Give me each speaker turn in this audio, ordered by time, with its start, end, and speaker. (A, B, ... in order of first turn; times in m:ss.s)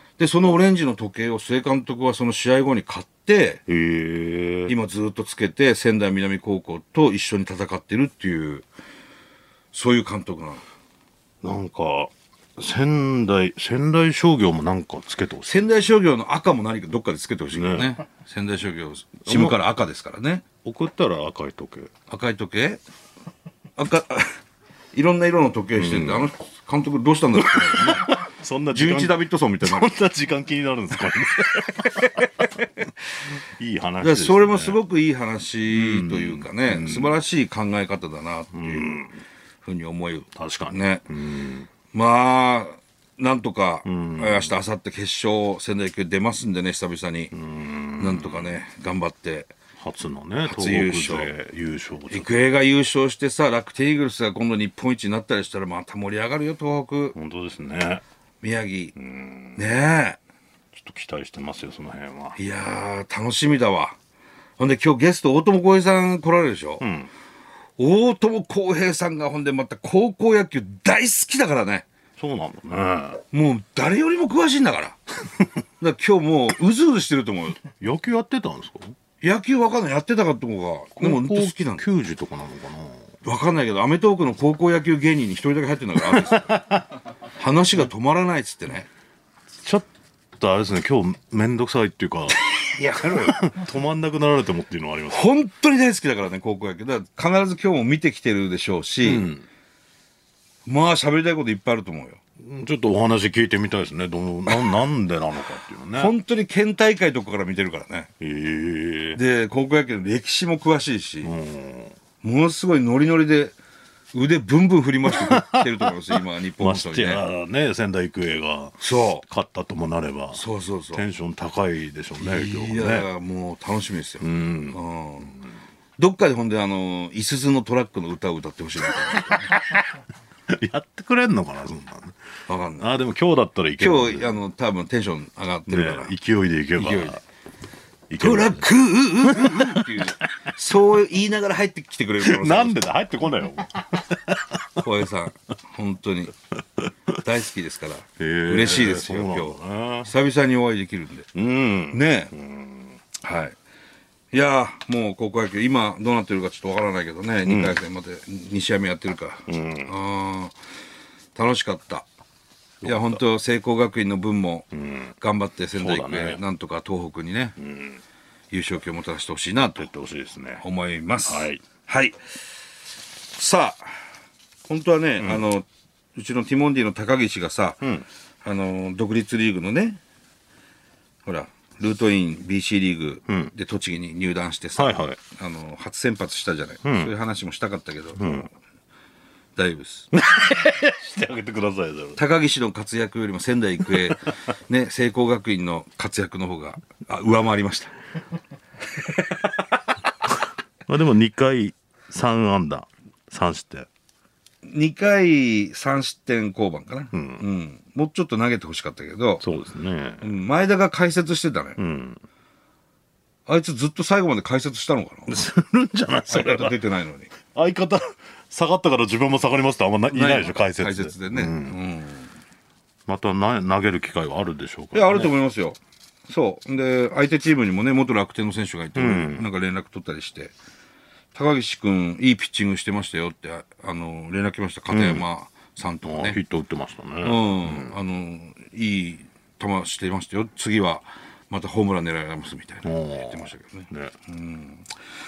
0:00.2-0:03.6 A
0:03.7-0:04.7 B
0:04.7-0:08.7 A
0:09.7-0:10.6 A
0:11.4-0:15.7 B
0:15.5-0:20.4 A
0:17.5-0:18.0 B
0:19.3-0:19.6 B
0:20.6-0:21.9 B
0:22.1-0:22.8 A
0:23.8-0:24.4 A
0:24.9-0:28.2 A
0:25.8-0:26.3 B
0:27.4-0:32.1 B
0:28.7-0:29.9 A
0:31.3-0:32.4 A
0:33.6-0:34.8 B
0:34.0-0:39.1 A
0:35.7-0:37.2 B
0:38.5-0:39.2 B
0:39.6-0:41.1 A
0:40.4-0:41.7 B
0:41.9-0:47.3 A
0:43.8-0:44.5 B
0:47.3-0:48.6 B
0:48.0-0:49.5 A
0:49.8-0:52.5 B
0:50.4-0:51.3 A
0:52.1-0:57.2 A
0:57.2-0:58.0 B
0:58.4-0:59.0 A
0:59.0-0:59.6 B
0:59.6-1:00.2 A
1:00.7-1:02.4 B
1:02.4-1:04.0 A
1:04.6-1:06.9 A
1:06.8-1:07.1 B
1:07.8-1:11.9 A
1:12.2-1:13.2 B
1:13.3-1:15.0 A
1:15.8-1:17.6 A
1:17.8-1:19.0 B
1:19.2-1:21.8 A
1:21.0-1:23.1 B
1:23.2-1:26.5 A
1:26.0-1:26.9 B
1:27.4-1:28.9 A
1:29.6-1:32.4 B
1:32.5-1:33.4 A
1:33.0-1:35.2 B
1:35.1-1:39.3 A
1:39.0-1:39.4 B
1:40.7-1:42.2 A
1:42.4-1:46.1 B
1:46.0-1:48.1 A
1:48.2-1:49.2 B
1:49.2-1:51.3 A
1:51.2-1:52.0 B
1:52.2-1:53.6 A
1:54.1-1:57.2 A
1:55.1-2:03.1 B
1:58.8-1:59.2 A
2:00.3-2:01.0 A
2:02.2-2:05.4 A
2:04.2-2:04.8 B
2:06.0-2:09.5 A
2:10.5-2:12.2 B
2:12.5-2:12.9 A
2:12.8-2:14.4 B
2:13.8-2:16.1 A
2:15.7-2:17.2 B
2:16.8-2:17.2 A
2:18.1-2:18.7 B
2:18.2-2:22.8 A
2:19.2-2:20.0 B
2:22.2-2:24.6 B
2:24.8-2:26.3 A
2:27.2-2:31.3 A
2:28.2-2:30.1 B
2:31.4-2:33.0 B
2:31.9-2:32.3 A
2:33.2-2:33.6 A
2:34.3-2:40.6 A
2:37.4-2:37.8 B
2:39.5-2:39.9 B
2:41.4-2:42.1 A
2:42.8-2:43.2 B
2:42.8-2:44.7 A
2:44.7-2:45.1 B
2:45.2-2:47.6 A
2:45.7-2:46.4 B
2:47.6-2:48.0 B
2:48.5-2:49.9 A
2:49.6-2:50.6 B
2:50.6-2:52.4 A
2:51.2-2:51.6 B
2:53.3-2:54.0 A
2:54.7-2:57.9 A
2:58.4-3:00.0 A
3:01.3-3:08.5 A
3:04.8-3:05.2 B
3:06.8-3:07.1 B
3:08.2-3:08.5 B
3:09.6-3:10.1 A
3:10.1-3:12.2 B
3:12.2-3:18.0 A
3:13.9-3:14.2 B
3:20.9-3:23.9 B
3:24.6-3:29.4 A
3:27.1-3:27.4 B
3:29.4-3:30.2 B
3:30.2-3:31.8 A
3:31.8-3:32.2 B
3:33.5-3:35.4 A
3:35.3-3:36.8 B
3:36.3-3:37.3 A
3:37.5-3:41.8 B
3:40.1-3:42.3 A
3:43.1-3:45.3 B
3:44.9-3:50.5 A
3:49.0-3:49.5 B
3:51.3-3:56.4 A
3:54.9-3:55.2 B
3:56.0-3:58.0 B
3:57.2-4:04.8 A
4:02.8-4:04.1 B